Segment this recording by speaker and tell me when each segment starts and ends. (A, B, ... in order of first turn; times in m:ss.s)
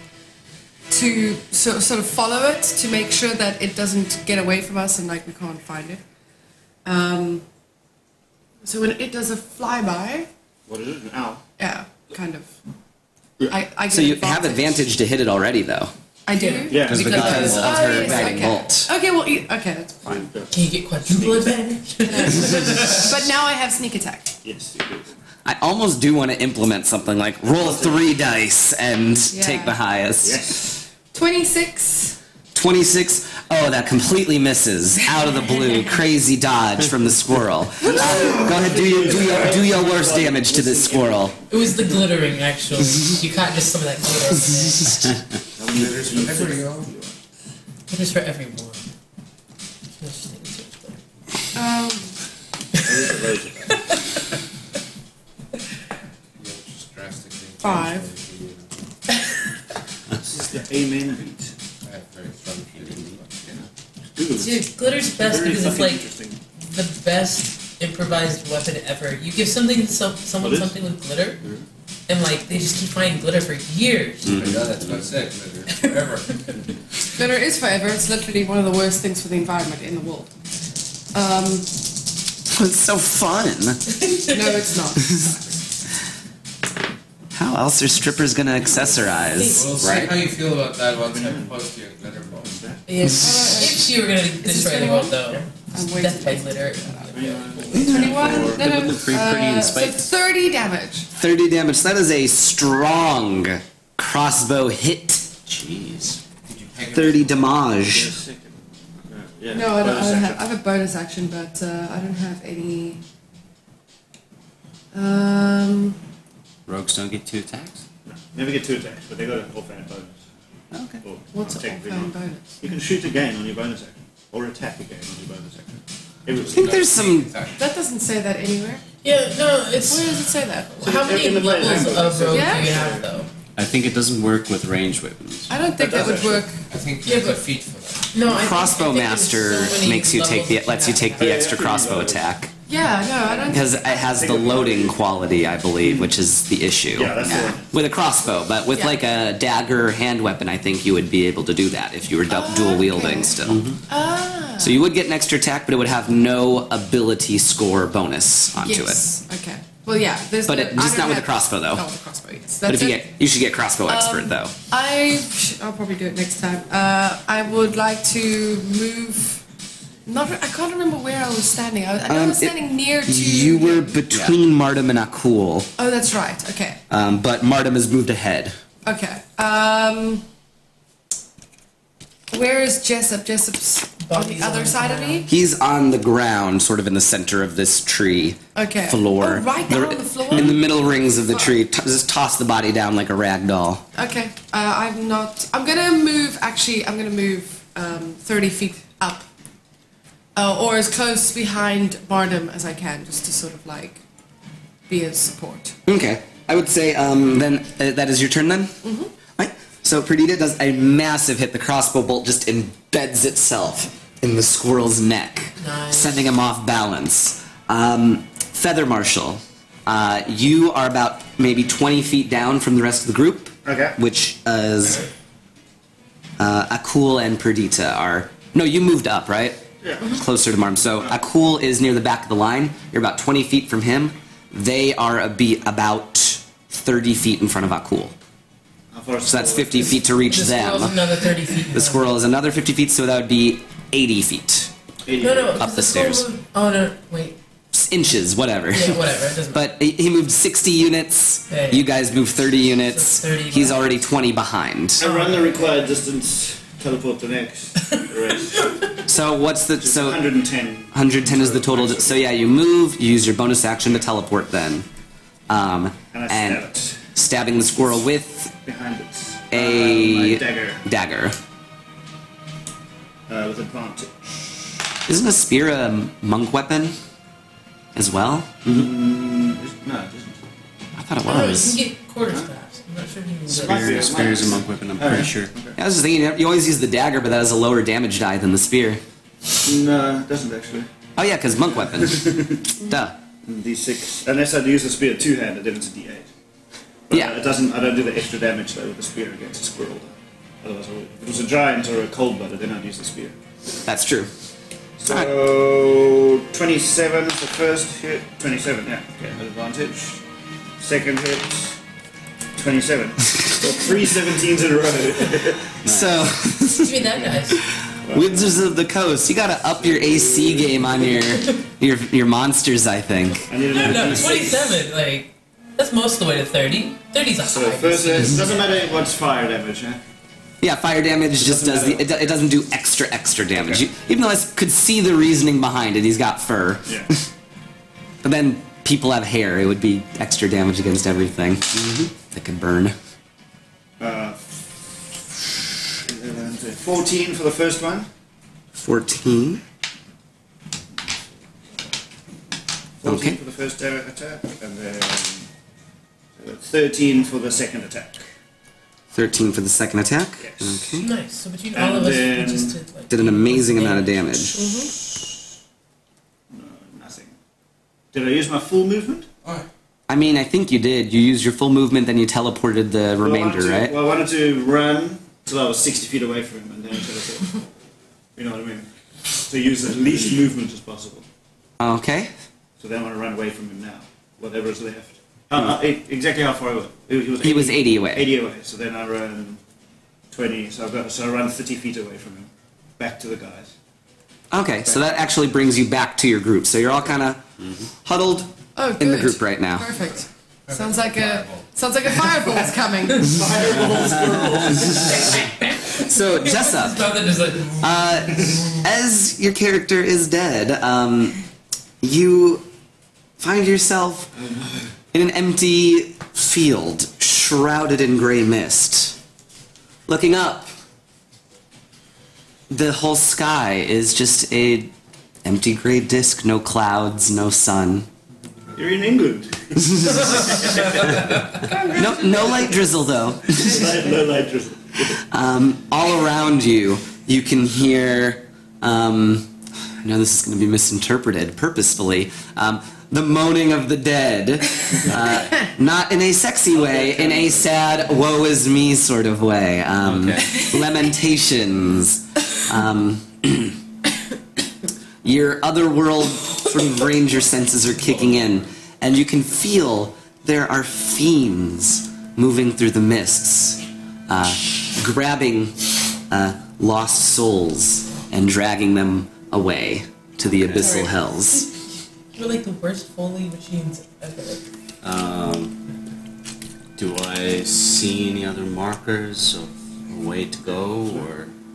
0:00.9-0:06.0 A
0:06.8-0:07.4 A
0:08.6-0:10.3 A
0:10.7-0:11.4 B
0:11.6-0:12.5 A
0:13.5-0:14.8 A
0:13.9-0:15.9 C
0:16.2-0:20.3 A
0:16.3-0:16.7 D
0:16.7-0:17.6 B
0:16.9-0:18.9 C
0:17.1-0:17.6 E
0:17.2-0:17.8 F
0:20.0-0:21.6 B
0:20.5-0:23.1 D
0:22.0-0:24.3 A
0:24.4-0:25.1 B
0:25.4-0:30.4 C
0:27.4-0:28.1 B
0:29.3-0:29.8 A
0:30.2-0:30.8 B
0:31.1-0:32.2 A
0:32.5-0:41.3 C
0:37.8-0:41.7 B
0:41.5-0:45.1 D
0:45.6-0:47.2 B
0:45.7-0:46.9 F
0:47.9-0:48.8 D
0:50.0-0:51.0 D
0:51.5-0:52.2 A
0:52.8-0:53.9 B
0:53.7-0:53.9 D
0:56.4-0:58.8 F
0:57.6-0:58.1 A
1:00.3-1:01.5 B
1:01.8-1:03.7 F
1:02.8-1:03.2 E
1:04.2-1:06.4 B
1:04.4-1:06.1 D
1:06.6-1:11.4 D
1:10.4-1:10.8 B
1:12.1-1:14.4 D
1:14.2-1:16.6 F
1:14.2-1:15.1 E
1:15.7-1:16.4 D
1:17.2-1:20.3 A
1:21.1-1:21.7 A
1:22.5-1:23.8 C
1:24.0-1:24.7 D
1:24.3-1:25.5 A
1:27.3-1:29.6 C
1:29.2-1:30.1 D
1:29.5-1:32.6 F
1:29.8-1:30.2 E
1:31.0-1:31.6 B
1:32.4-1:32.8 B
1:32.9-1:38.1 D
1:33.1-1:37.2 A
1:37.1-1:38.9 B
1:37.7-1:41.1 A
1:37.8-1:38.3 C
1:38.4-1:40.1 E
1:41.2-1:45.3 C
1:45.5-1:46.2 E
1:46.4-1:47.7 F
1:46.9-1:48.1 C
1:47.8-1:50.4 B
1:49.5-1:53.0 A
1:54.9-1:56.0 A
1:56.6-1:57.8 E
1:58.0-2:00.2 B
2:00.7-2:01.0 E
2:01.0-2:07.0 B
2:01.3-2:02.6 A
2:06.3-2:07.7 F
2:06.5-2:07.3 C
2:07.6-2:08.8 A
2:09.0-2:13.3 D
2:09.8-2:11.1 A
2:10.8-2:13.1 B
2:12.3-2:12.8 A
2:13.6-2:15.5 E
2:15.5-2:16.6 A
2:15.8-2:16.4 B
2:16.7-2:18.1 F
2:17.0-2:17.4 D
2:18.1-2:21.5 D
2:18.3-2:22.5 C
2:21.2-2:22.4 B
2:22.7-2:24.0 A
2:23.2-2:25.1 B
2:23.5-2:33.7 C
2:25.8-2:26.2 B
2:26.9-2:27.9 B
2:32.3-2:33.4 A
2:33.4-2:33.8 E
2:33.9-2:34.8 A
2:34.6-2:39.0 C
2:38.6-2:43.1 A
2:40.4-2:41.8 C
2:42.6-2:44.5 C
2:43.9-2:49.4 A
2:50.0-2:54.0 A
2:52.1-2:55.7 C
2:55.8-2:56.8 A
2:56.9-2:58.6 C
2:58.8-3:00.2 A
3:02.3-3:05.3 A
3:04.0-3:05.3 D
3:05.3-3:13.8 C
3:08.5-3:10.6 A
3:11.3-3:11.6 A
3:13.9-3:19.2 A
3:20.3-3:24.0 A
3:24.9-3:25.8 A
3:25.8-3:28.8 C
3:28.8-3:29.1 A
3:29.4-3:45.0 C
3:35.6-3:36.2 D
3:43.6-3:44.0 B
3:46.4-3:49.6 C
3:49.8-3:50.2 B
3:50.2-3:58.1 C
3:58.9-4:00.1 B
3:59.2-4:01.0 C
4:00.3-4:02.2 D
4:01.7-4:04.7 C
4:05.0-4:05.6 B
4:05.2-4:07.4 D
4:05.6-4:06.2 C
4:07.7-4:15.0 C
4:08.7-4:09.7 D
4:11.5-4:11.9 D
4:12.5-4:14.0 D
4:15.0-4:18.9 B
4:15.0-4:15.8 D
4:19.0-4:20.3 C
4:19.7-4:22.4 B
4:20.9-4:24.8 C
4:25.5-4:28.5 C
4:26.1-4:27.0 B
4:28.5-4:30.8 B
4:29.5-4:31.4 C
4:33.3-4:34.1 B
4:35.1-4:37.0 C
4:37.9-4:38.8 C
4:38.6-4:40.4 B
4:41.0-4:41.8 C
4:41.2-4:44.5 D
4:43.5-4:45.8 B
4:43.5-4:45.5 E
4:45.8-4:49.0 C
4:49.6-4:50.9 B
4:51.2-4:53.1 C
4:51.9-4:52.6 B
4:53.4-4:56.3 B
4:57.1-5:03.3 B
5:03.8-5:04.3 C
5:05.0-5:10.2 B
5:10.8-5:11.8 B
5:12.6-5:15.8 B
5:15.8-5:16.3 E
5:15.8-5:23.5 C
5:16.8-5:17.6 D
5:18.0-5:18.7 B
5:19.6-5:21.2 B
5:23.5-5:24.8 B
5:23.7-5:28.7 D
5:27.4-5:30.0 B
5:30.6-5:37.2 C
5:31.4-5:32.4 B
5:33.5-5:33.8 B
5:36.8-5:37.1 B
5:38.2-5:43.0 C
5:44.0-5:44.4 B
5:46.0-5:48.1 B
5:48.7-5:49.6 C
5:53.0-5:55.5 B
5:53.0-5:53.4 C
5:56.4-5:58.2 B
5:59.1-6:01.1 C
6:00.4-6:01.0 B
6:00.9-6:04.8 D
6:01.7-6:02.8 B
6:03.1-6:04.6 C
6:04.5-6:04.9 A
6:06.5-6:07.3 B
6:08.1-6:09.3 B
6:10.1-6:14.0 C
6:13.2-6:17.6 B
6:18.4-6:18.9 B
6:19.4-6:21.2 B
6:21.8-6:22.3 C
6:22.8-6:29.6 B
6:27.4-6:28.3 C
6:30.3-6:33.7 B
6:34.5-6:37.4 C
6:38.0-6:39.9 C
6:38.8-6:43.4 A
6:40.7-6:41.7 F
6:43.2-6:45.4 B
6:44.9-6:48.7 D
6:45.9-6:47.1 C
6:47.8-6:51.4 C
6:52.0-6:52.6 C
6:53.4-6:54.3 C
6:54.4-6:54.8 B
6:55.1-6:59.2 C
7:00.1-7:00.7 C
7:02.7-7:04.9 C
7:05.4-7:08.1 C
7:08.7-7:11.2 B
7:11.9-7:13.8 C
7:13.5-7:15.2 B
7:15.3-7:19.5 C
7:20.0-7:33.8 C
7:26.7-7:28.2 B
7:30.0-7:30.4 E
7:35.2-7:51.7 C
7:50.5-7:51.0 E
7:50.7-7:51.7 D
7:52.3-7:54.6 D
7:55.0-7:55.8 E
7:57.0-8:01.5 E